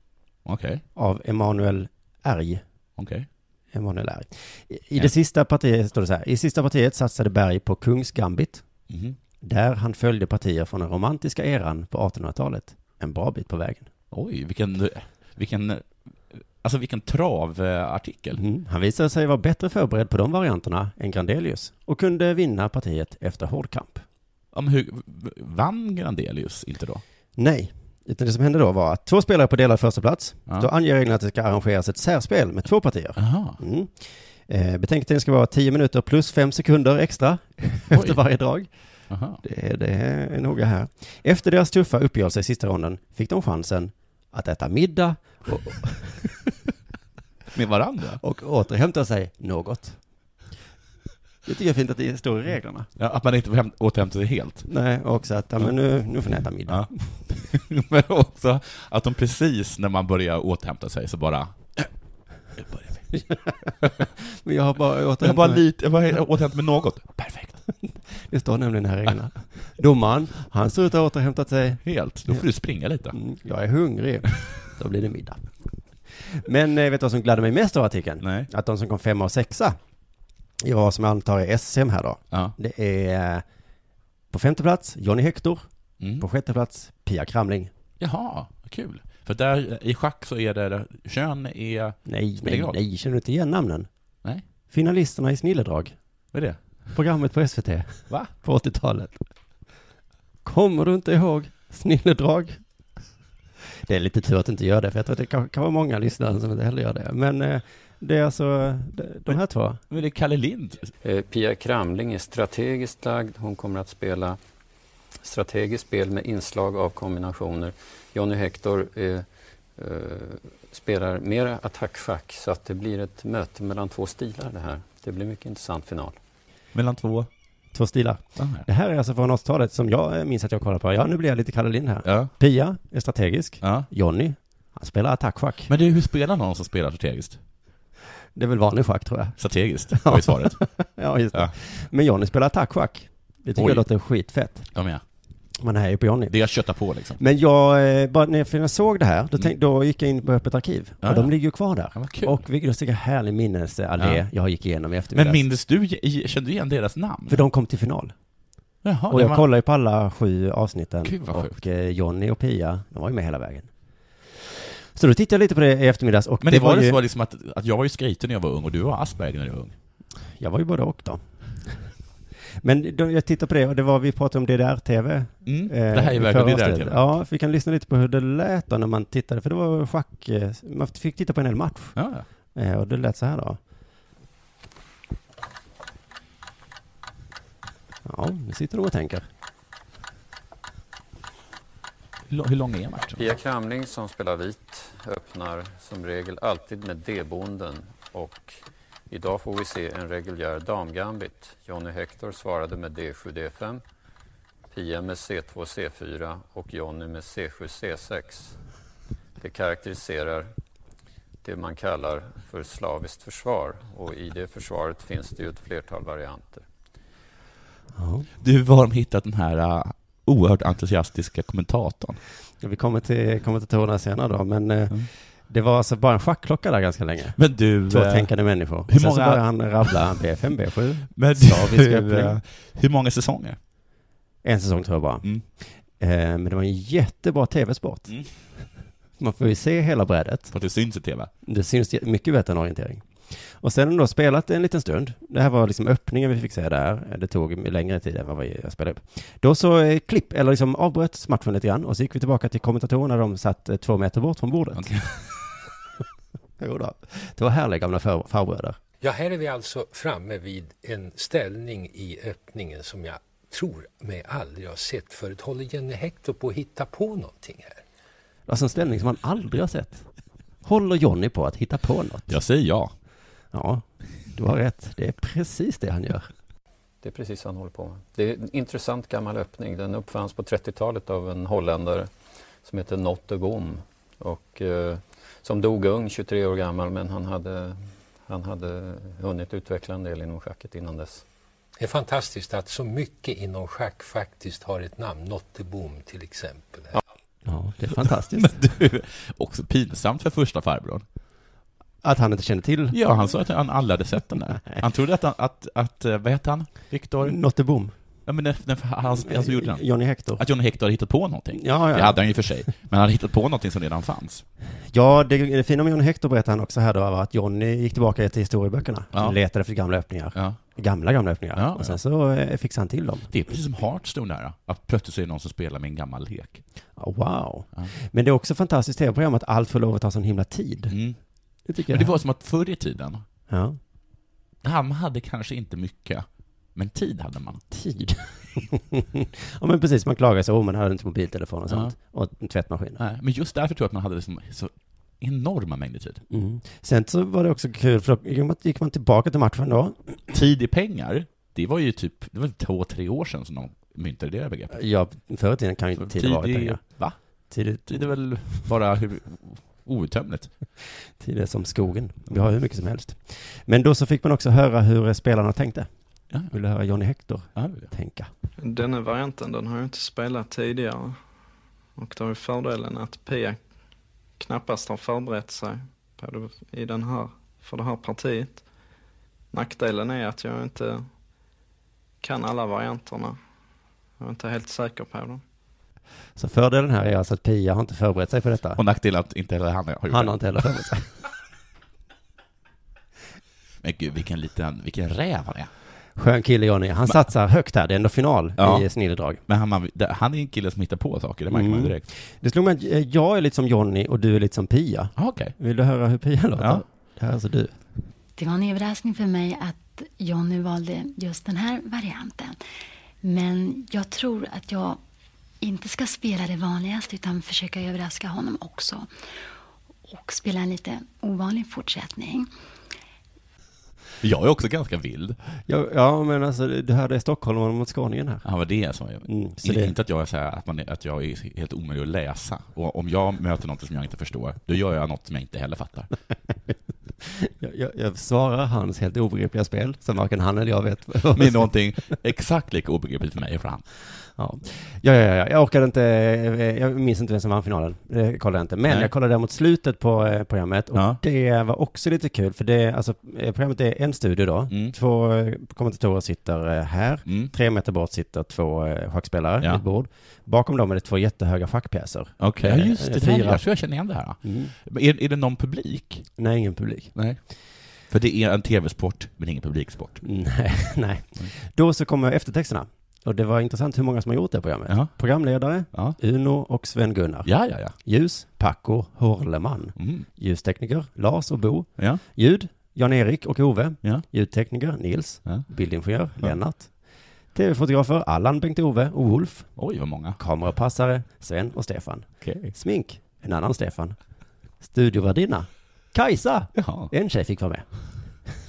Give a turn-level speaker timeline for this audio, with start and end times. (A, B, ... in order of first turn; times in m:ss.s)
0:00.4-0:00.8 A
0:01.0-0:02.6 B
0:03.0-0:03.3 A
0:03.7-0:08.6 B
0:08.9-0:09.2 A
0:09.4-0:13.9 B
0:14.1-0:18.4 A
0:18.3-0:24.0 B
0:24.5-0:27.0 A
0:27.4-0:38.7 B
0:33.2-0:33.6 A
0:37.9-0:38.2 A
0:39.1-0:39.4 A
0:39.4-0:46.3 B
0:47.5-0:48.2 A
0:48.2-0:50.0 B
0:51.4-0:52.9 B
0:53.0-0:54.7 A
0:54.7-0:57.1 B
0:56.7-1:01.9 A
1:02.6-1:03.0 A
1:03.1-1:05.6 B
1:05.2-1:07.6 A
1:07.8-1:12.4 B
1:11.8-1:13.2 A
1:13.1-1:15.4 B
1:16.3-1:19.8 B
1:18.2-1:18.5 A
1:20.6-1:23.4 B
1:24.3-1:25.6 B
1:26.0-1:26.2 A
1:26.2-1:27.7 B
1:28.0-1:32.8 A
1:32.0-1:33.9 B
1:34.7-1:35.9 B
1:36.3-1:36.6 A
1:36.9-1:39.2 B
1:40.4-1:42.6 B
1:43.8-1:49.8 B
1:49.9-1:50.9 A
1:51.0-1:54.4 C
1:55.2-2:06.2 C
2:06.7-2:07.3 A
2:07.7-2:15.7 B
2:08.4-2:08.6 A
2:12.0-2:12.3 A
2:13.6-2:13.9 A
2:15.7-2:17.4 A
2:18.3-2:19.4 B
2:19.4-2:20.6 A
2:19.9-2:24.7 B
2:23.6-2:23.9 A
2:24.7-2:25.0 A
2:25.6-2:26.3 B
2:26.3-2:27.2 A
2:27.2-2:35.4 B
2:31.0-2:32.4 A
2:34.0-2:34.2 A
2:35.1-2:37.4 A
2:37.3-2:38.1 B
2:38.8-2:39.4 A
2:39.1-2:43.7 B
2:41.0-2:41.6 A
2:44.9-2:47.0 B
2:46.4-2:49.7 A
2:50.4-2:51.8 B
2:52.6-3:02.0 B
2:55.4-2:57.1 A
3:02.0-3:02.2 A
3:02.5-3:03.6 B
3:08.0-3:09.2 B
3:12.3-3:13.2 A
3:13.2-3:18.6 C
3:19.1-3:23.8 C
3:24.7-3:28.5 C
3:29.4-3:30.5 C
3:31.4-3:36.6 C
3:38.0-3:38.3 B
3:38.4-3:42.2 A
3:42.6-3:52.4 B
3:47.4-3:50.0 A
3:51.1-3:53.6 A
3:54.4-3:58.2 B
3:59.2-4:00.5 B
4:00.5-4:01.3 A
4:01.4-4:14.9 B
4:14.7-4:15.2 A
4:16.6-4:18.8 B
4:19.0-4:27.8 D
4:28.5-4:30.1 B
4:30.6-4:32.4 B
4:32.3-4:32.9 A
4:33.5-4:36.3 B
4:37.0-4:42.1 C
4:42.6-4:51.2 C
4:51.8-4:57.0 D
4:57.4-4:58.6 B
4:58.3-5:01.0 A
5:02.0-5:03.0 B
5:02.9-5:07.4 A
5:07.2-5:07.9 B
5:08.2-5:14.4 A
5:09.2-5:10.4 B
5:11.5-5:12.2 B
5:14.9-5:23.3 B
5:21.5-5:22.0 A
5:23.3-5:26.6 A
5:27.0-5:30.9 B
5:30.9-5:31.2 A
5:31.7-5:32.1 B
5:31.9-5:33.2 A
5:33.5-5:33.8 B
5:34.6-5:37.6 A
5:37.7-5:43.0 B
5:41.7-5:41.9 A
5:43.0-5:46.2 A
5:46.3-5:50.1 B
5:50.3-5:54.8 A
5:54.7-5:56.8 B
5:56.0-5:57.2 A
5:57.5-5:58.1 B
5:57.8-6:00.5 A
6:01.2-6:05.9 B
6:06.5-6:08.3 B
6:07.5-6:07.9 A
6:08.6-6:11.2 E
6:12.0-6:13.6 E
6:14.4-6:18.6 E
6:19.5-6:21.0 E
6:22.2-6:23.4 E
6:24.2-6:25.4 E
6:26.4-6:28.8 B
6:28.8-6:30.4 A
6:30.1-6:31.1 B
6:33.8-6:35.7 A
6:36.2-6:39.4 B
6:38.6-6:38.9 A
6:39.4-6:42.0 A
6:41.5-6:47.8 B
6:45.2-6:45.5 A
6:46.6-6:46.8 A
6:48.4-6:52.6 F
6:53.2-6:55.0 F
6:55.6-6:59.1 F
7:00.1-7:02.5 F
7:04.2-7:05.4 A
7:05.7-7:08.4 B
7:08.4-7:16.1 A
7:09.2-7:09.9 B
7:17.2-7:21.7 B
7:21.3-7:23.8 A
7:24.4-7:43.6 B
7:30.9-7:31.2 A
7:34.7-7:34.9 A
7:37.2-7:37.5 A
7:42.4-7:46.2 A
7:44.4-7:44.7 B
7:46.4-7:47.1 B
7:47.1-7:47.4 A
7:48.1-7:50.2 A
7:50.2-8:06.9 B
7:54.9-7:55.1 A
7:57.4-7:58.0 A
8:00.0-8:00.3 A
8:07.5-8:09.7 B
8:09.8-8:10.4 A
8:10.4-8:14.2 B
8:12.4-8:12.7 A
8:14.8-8:17.9 B
8:16.7-8:17.1 A